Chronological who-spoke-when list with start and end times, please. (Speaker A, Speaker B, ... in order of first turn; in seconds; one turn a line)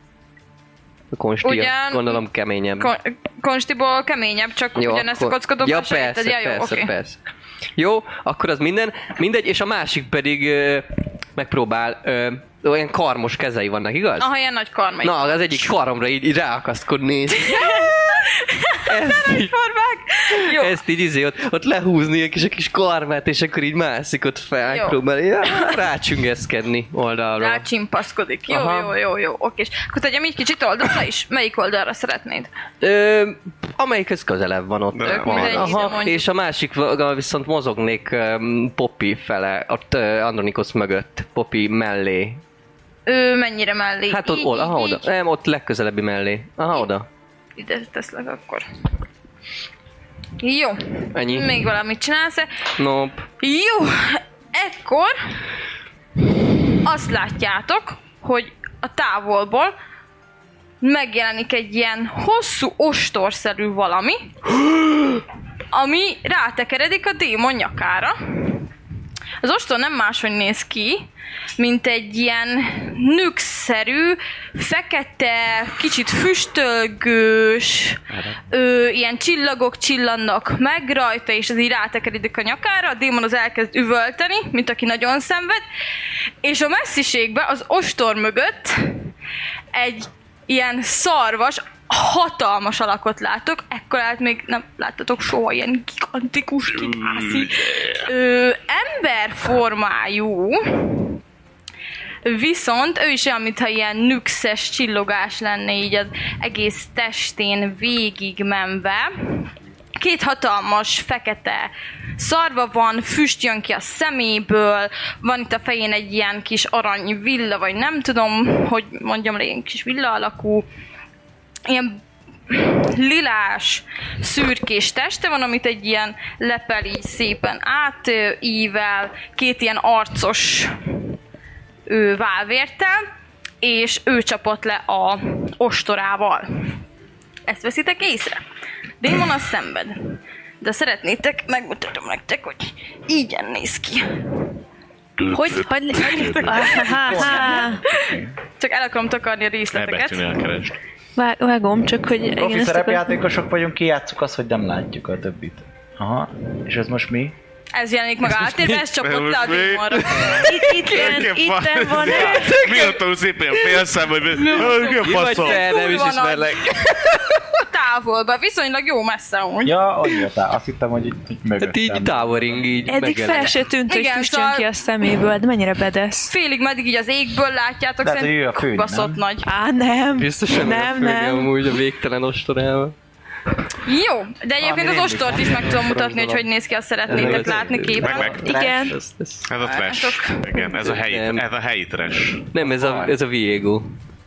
Speaker A: 1.1-2.9
Speaker B: 1.4-2.2
Speaker B: 2.8-6.9
Speaker A: 4.8-7.2
Speaker A: 7.8-14.3
Speaker B: 14.2-15.6
Speaker A: 15.0-18.1
Speaker B: 17.4-20.8
Speaker A: 18.9-19.5
Speaker A: 20.3-27.6
Speaker B: 24.7-25.8
Speaker B: 27.4-32.5
Speaker A: 28.5-28.9
Speaker A: 32.8-42.4
Speaker C: 34.9-35.9
Speaker B: 35.1-36.3
Speaker B: 43.1-45.1
Speaker A: 44.1-47.1
Speaker B: 47.6-48.7
Speaker B: 50.4-52.5
Speaker A: 51.1-51.7
Speaker A: 52.8-53.3
Speaker B: 53.4-55.1
Speaker B: 56.8-59.7
Speaker B: 60.8-64.6
Speaker B: 65.7-68.6
Speaker B: 69.4-85.6
Speaker C: 78.1-78.4
Speaker B: 86.4-89.0
Speaker B: 89.7-101.1
Speaker C: 96.8-98.1
Speaker B: 102.2-120.7
Speaker B: 121.7-130.8
Speaker B: 131.9-133.0
Speaker B: 133.6-136.8
Speaker B: 137.5-138.4
Speaker B: 139.0-144.1
Speaker C: 145.2-146.8
Speaker D: 145.3-147.8
Speaker B: 145.9-150.2
Speaker E: 146.7-148.3
Speaker C: 149.7-150.8
Speaker D: 151.2-153.2
Speaker E: 152.4-157.4
Speaker B: 157.7-160.7
Speaker A: 158.2-158.9
Speaker C: 159.0-165.7
Speaker A: 159.9-161.0
Speaker E: 160.1-160.5
Speaker D: 160.4-162.5
Speaker A: 162.0-163.0
Speaker A: 163.6-167.6
Speaker B: 164.4-169.8
Speaker E: 169.6-172.9
Speaker A: 171.6-173.6
Speaker D: 172.9-176.3
Speaker B: 173.9-174.7
Speaker B: 176.3-179.5
Speaker E: 178.0-179.2
Speaker D: 179.4-181.5
Speaker A: 180.1-182.9
Speaker B: 183.8-188.3
Speaker E: 184.6-186.5
Speaker E: 187.1-189.0
Speaker A: 187.1-189.5
Speaker C: 188.0-188.5
Speaker D: 188.4-188.9
Speaker C: 189.5-192.5
Speaker B: 189.6-190.6
Speaker A: 190.8-191.5
Speaker A: 192.5-193.9
Speaker E: 192.6-193.2